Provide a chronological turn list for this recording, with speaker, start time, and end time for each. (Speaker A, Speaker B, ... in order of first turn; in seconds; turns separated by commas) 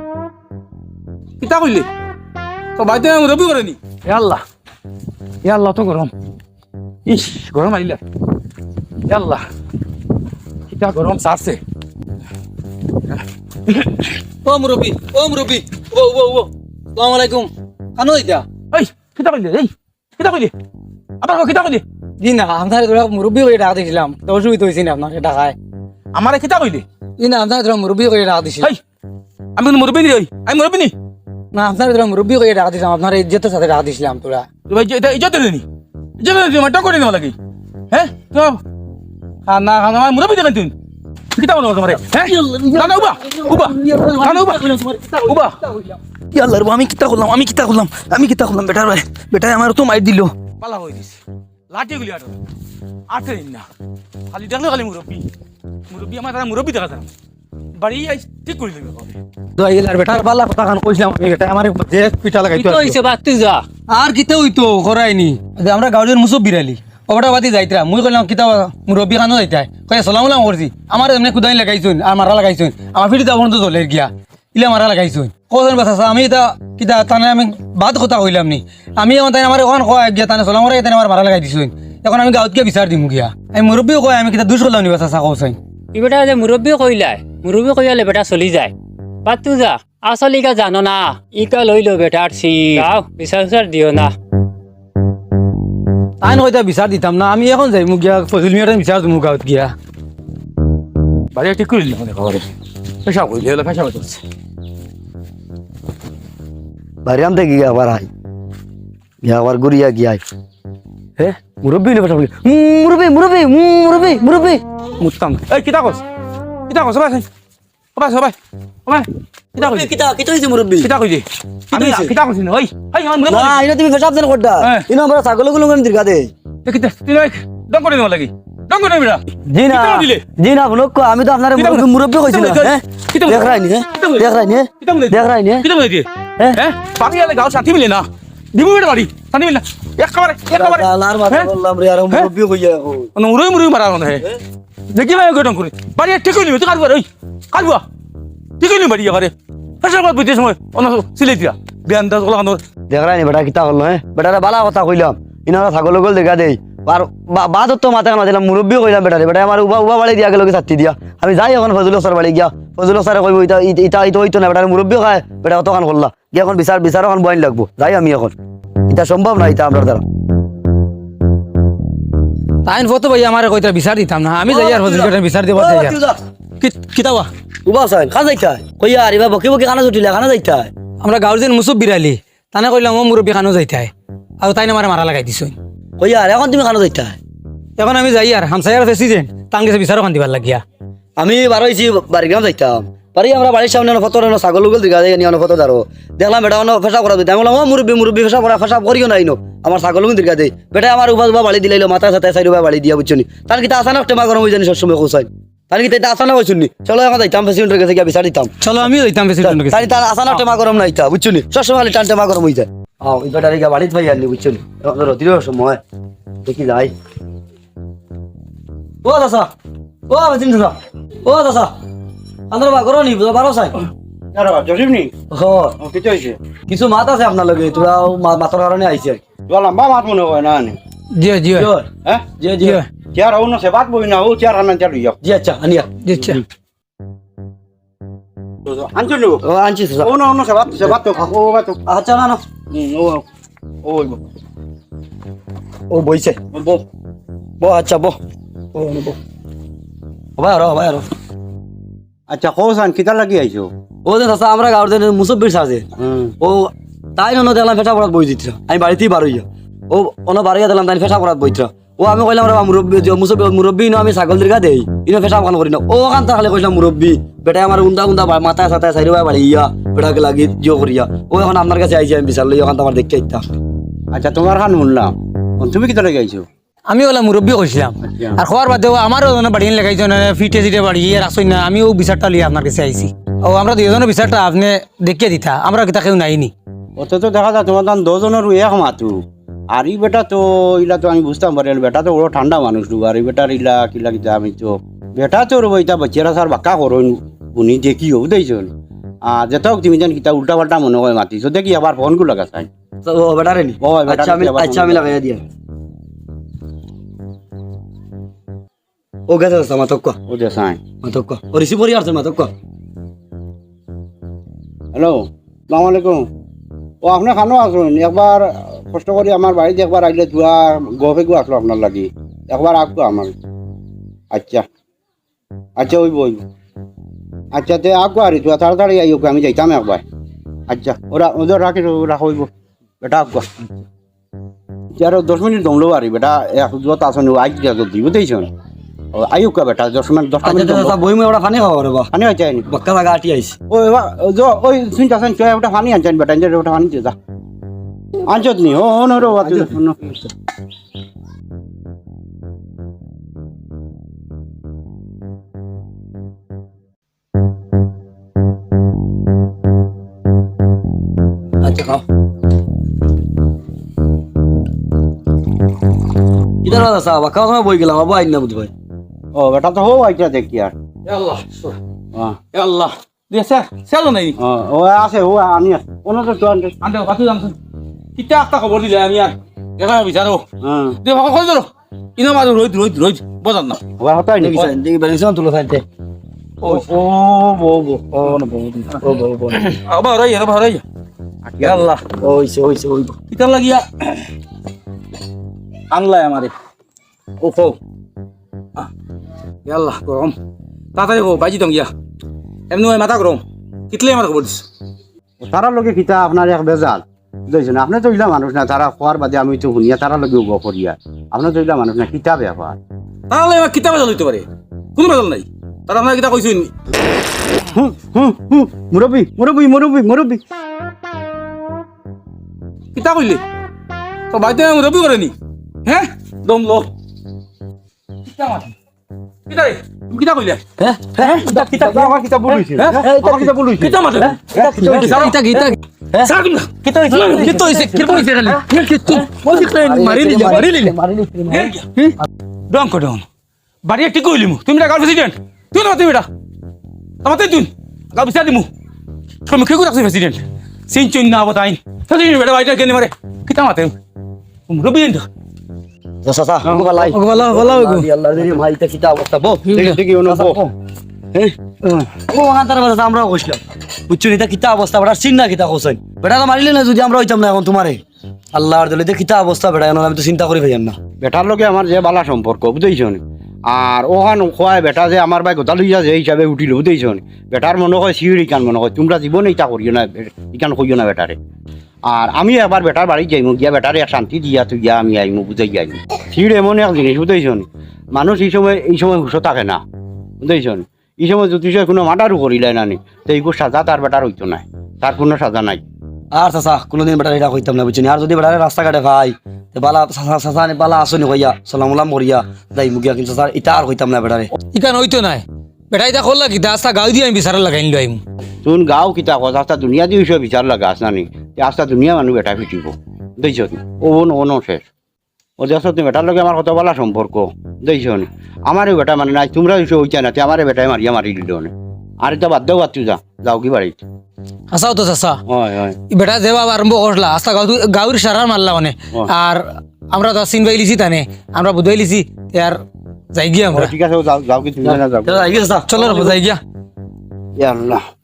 Speaker A: 1.4-1.9, Speaker A: 2.8-4.4, Speaker A: 5.4-6.1, Speaker A: 7.0-8.0, Speaker A: 9.1-9.4, Speaker A: 10.7-11.6, Speaker A: 13.1-14.1, Speaker B: 14.4-18.4, Speaker A: 18.7-20.5, Speaker A: 21.2-21.8, Speaker B: 22.2-25.6, Speaker A: 26.1-26.8, Speaker B: 27.2-28.7, Speaker A: 29.6-30.9, Speaker B: 31.5-34.5, Speaker A: 34.7-35.6, Speaker A: 36.2-37.3, Speaker A: 37.9-38.6, Speaker A: 39.5-40.7, Speaker A: 41.3-44.7, Speaker B: 42.3-50.3, Speaker A: 45.2-45.5, Speaker A: 50.6-51.2, Speaker A: 51.7-52.4, Speaker A: 53.1-53.7, Speaker A: 54.3-55.3, Speaker A: 55.9-57.1, Speaker A: 57.8-59.2, Speaker B: 59.6-63.0, Speaker C: 62.5-63.6, Speaker B: 63.9-85.6, Speaker C: 85.9-88.7, Speaker C: 89.2-94.1, Speaker B: 96.2-99.7, Speaker A: 101.3-102.5, Speaker A: 103.0-104.2, Speaker D: 107.0-108.1, Speaker D: 109.2-110.2, Speaker D: 111.2-114.6, Speaker A: 115.0-116.0, Speaker A: 116.7-117.3, Speaker A: 118.0-119.9, Speaker D: 119.6-120.9, Speaker A: 120.8-123.6, Speaker D: 121.7-122.1, Speaker D: 123.3-126.3, Speaker A: 124.6-124.9, Speaker A: 126.6-130.2, Speaker D: 129.5-135.7, Speaker A: 131.6-134.3, Speaker A: 134.8-141.5, Speaker D: 140.5-143.1, Speaker A: 143.1-144.3, Speaker A: 144.9-147.8, Speaker A: 148.6-152.6, Speaker D: 152.9-168.3, Speaker D: 168.9-170.0, Speaker B: 172.6-175.9, Speaker D: 174.5-176.2, Speaker B: 176.6-177.3, Speaker D: 177.7-180.7, Speaker B: 181.0-185.5, Speaker D: 186.0-187.2, Speaker B: 187.8-190.6, Speaker D: 191.2-208.6, Speaker B: 208.6-210.0, Speaker D: 209.4-215.8, Speaker D: 216.4-216.9, Speaker D: 219.0-219.5, Speaker D: 220.1-221.7, Speaker D: 222.5-223.7, Speaker E: 224.3-225.1, Speaker D: 225.3-225.8, Speaker E: 225.8-226.4, Speaker D: 226.7-229.2, Speaker E: 229.5-230.8, Speaker B: 231.1-231.7, Speaker D: 231.5-232.8, Speaker B: 232.6-232.9, Speaker E: 233.1-235.2, Speaker D: 235.2-236.3, Speaker B: 236.0-236.4, Speaker E: 238.7-239.4, Speaker D: 239.4-240.1, Speaker E: 240.0-241.8, Speaker D: 241.8-242.4, Speaker E: 242.7-243.2, Speaker E: 243.8-244.2, Speaker D: 245.9-246.4, Speaker E: 246.5-246.8, Speaker D: 247.6-248.2, Speaker D: 248.7-249.2, Speaker D: 250.4-251.1, Speaker E: 252.3-253.7, Speaker D: 254.0-255.9, Speaker E: 256.0-256.3, Speaker D: 256.4-273.4, Speaker E: 274.1-276.4, Speaker B: 276.9-286.5, Speaker E: 278.0-278.4, Speaker E: 287.0-298.7, Speaker E: 299.2-302.7, Speaker D: 303.0-305.4, Speaker E: 303.8-305.1, Speaker D: 309.3-310.2, Speaker E: 310.3-310.8, Speaker D: 311.0-312.5, Speaker E: 314.9-316.3, Speaker E: 317.0-323.3, Speaker E: 324.3-324.6, Speaker E: 325.8-326.4, Speaker E: 327.5-330.0, Speaker E: 330.7-332.5, Speaker E: 333.0-333.5, Speaker E: 335.0-338.5, Speaker E: 339.1-340.9, Speaker D: 340.4-342.1, Speaker E: 342.1-342.6, Speaker D: 342.6-343.6, Speaker E: 343.7-347.1, Speaker E: 348.2-350.0, Speaker D: 361.6-362.0, Speaker D: 366.6-368.7, Speaker E: 369.3-370.7, Speaker A: 371.1-371.8, Speaker A: 372.5-374.4, Speaker E: 374.4-376.7, Speaker A: 376.8-377.6, Speaker A: 378.1-380.4, Speaker E: 380.6-381.0, Speaker A: 381.0-383.8, Speaker E: 384.0-384.8, Speaker D: 384.4-385.8, Speaker E: 386.6-388.1, Speaker A: 388.1-389.0, Speaker D: 388.9-389.8, Speaker A: 389.6-390.8, Speaker E: 391.4-391.9, Speaker A: 391.6-392.0, Speaker D: 392.2-393.2, Speaker A: 393.3-394.2, Speaker A: 395.9-396.5, Speaker A: 397.4-397.7, Speaker A: 399.6-400.4, Speaker A: 400.9-401.9, Speaker A: 402.7-404.6, Speaker E: 405.4-412.8, Speaker A: 413.3-416.7, Speaker E: 417.7-420.4, Speaker A: 422.9-423.4, Speaker A: 424.3-425.3, Speaker A: 425.8-426.9, Speaker A: 428.3-428.7, Speaker A: 429.5-430.6, Speaker D: 430.8-432.1, Speaker A: 431.2-431.7, Speaker E: 431.4-433.9, Speaker A: 432.8-433.3, Speaker D: 432.9-433.5, Speaker A: 433.8-439.7, Speaker D: 434.2-435.3, Speaker E: 434.6-434.9, Speaker B: 435.0-435.8, Speaker D: 437.1-438.2, Speaker B: 437.4-438.3, Speaker B: 439.0-440.9, Speaker D: 439.0-441.7, Speaker A: 441.5-441.9, Speaker A: 442.7-443.2, Speaker A: 443.8-446.3, Speaker A: 447.2-448.7, Speaker A: 449.5-453.9, Speaker A: 454.7-455.3, Speaker D: 456.2-460.7, Speaker B: 456.6-458.1, Speaker E: 459.7-460.6, Speaker D: 461.3-468.0, Speaker D: 468.5-471.0, Speaker E: 471.2-481.4, Speaker E: 482.0-489.8, Speaker E: 490.4-495.8, Speaker D: 496.3-504.5, Speaker B: 504.7-508.2, Speaker E: 508.6-514.8, Speaker E: 515.6-524.0, Speaker B: 524.7-525.4, Speaker E: 525.5-526.0, Speaker B: 526.1-532.8, Speaker B: 533.3-533.9, Speaker E: 533.7-536.3, Speaker D: 534.8-536.0, Speaker B: 535.9-536.6, Speaker E: 537.6-538.0